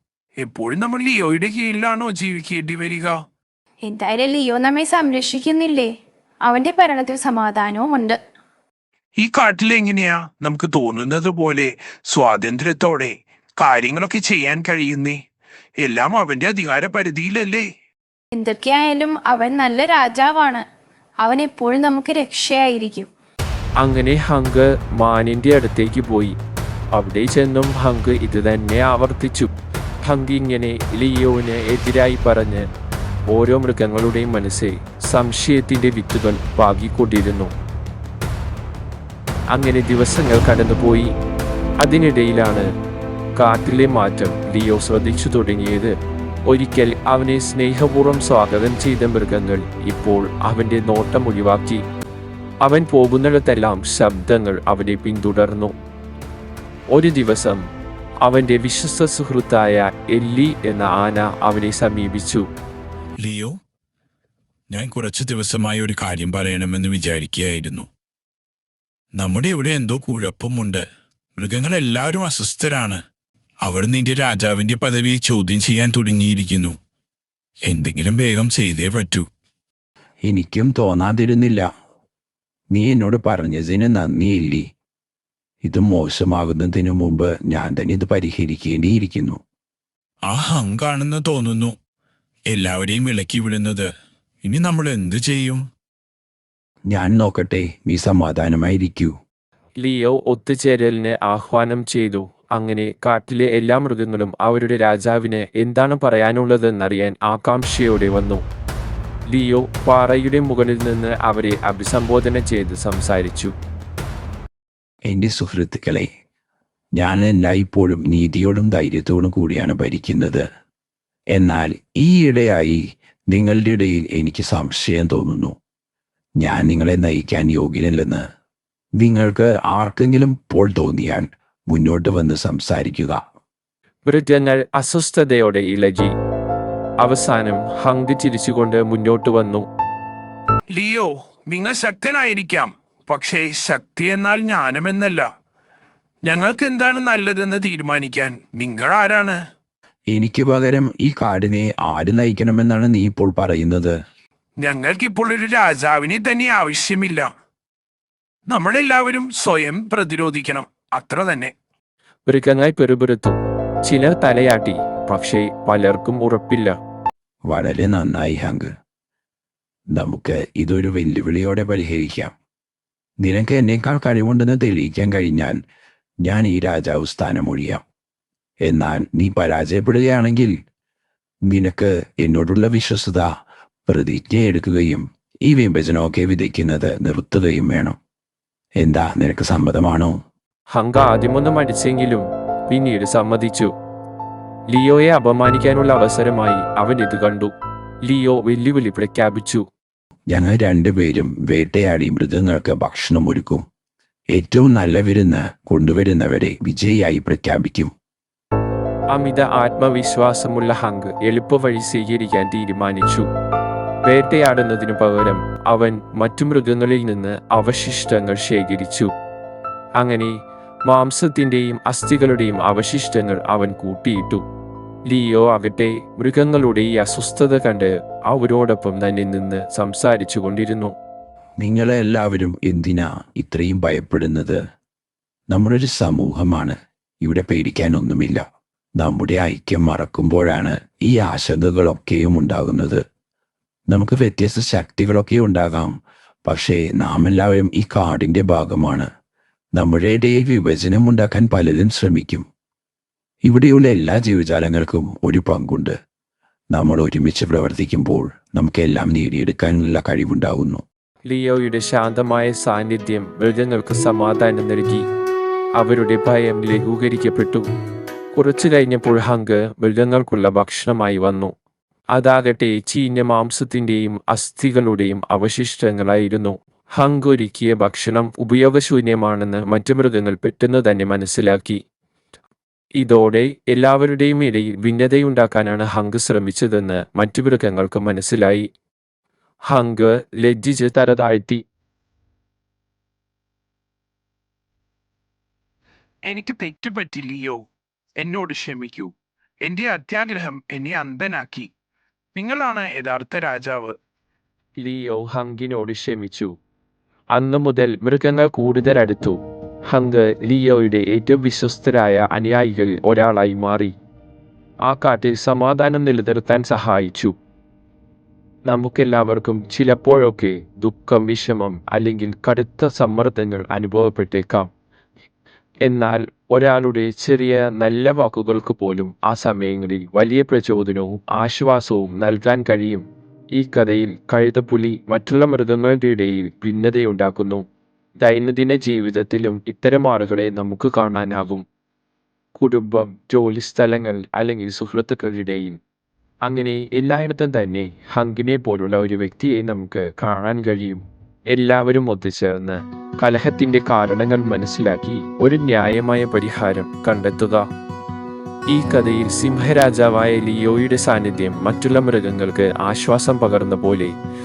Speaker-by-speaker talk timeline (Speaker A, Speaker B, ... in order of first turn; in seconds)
Speaker A: 0.4-3.2, 9.2-15.2, 15.8-17.7, 140.7-145.3, 146.2-149.4, 154.6-157.3, 158.5-161.5, 296.2-297.7, 298.2-301.7, 302.4-304.0
Speaker B: 3.8-8.2, 18.3-20.7, 21.2-23.1
Speaker C: 23.8-26.4, 26.9-29.5, 30.0-32.7, 33.3-37.5, 39.5-41.1, 41.8-42.7, 43.4-46.0, 46.5-51.8, 52.6-55.7, 56.9-57.7, 58.2-62.5, 99.8-108.4, 109.3-113.5, 134.1-136.1, 137.0-139.7, 162.3-166.8, 190.7-193.7, 194.7-197.5, 198.1-199.6, 209.1-213.3, 214.1-219.1, 220.0-220.3, 220.9-224.4, 225.1-230.9, 261.3-265.1, 265.8-267.7, 268.3-271.5, 272.1-281.8, 283.0-288.7, 289.7-291.6, 304.8-306.5, 307.3-314.0, 314.8-317.4, 318.7-324.7, 325.8-337.7, 338.2-341.6, 342.6-345.8, 346.4-357.7, 358.7-364.2
Speaker D: 63.2-63.6, 64.7-67.9, 69.1-73.0, 73.6-76.8, 77.6-79.3, 90.2-91.8, 92.5-93.9, 94.4-95.7
Speaker E: 80.2-81.7, 82.7-84.7, 85.6-89.4, 96.9-99.1, 115.1-116.1, 117.0-120.4, 121.3-125.5, 126.4-128.2, 129.0-133.2, 150.1-154.0, 167.5-168.7, 169.9-172.3, 173.2-175.6, 176.2-177.8, 178.7-180.5, 181.5-183.3, 183.9-188.0, 188.8-190.1, 200.3-203.6, 204.3-207.9, 231.6-234.6, 235.5-238.4, 239.0-243.0, 243.9-245.9, 246.5-249.1, 249.8-252.5, 253.5-255.9, 256.7-260.8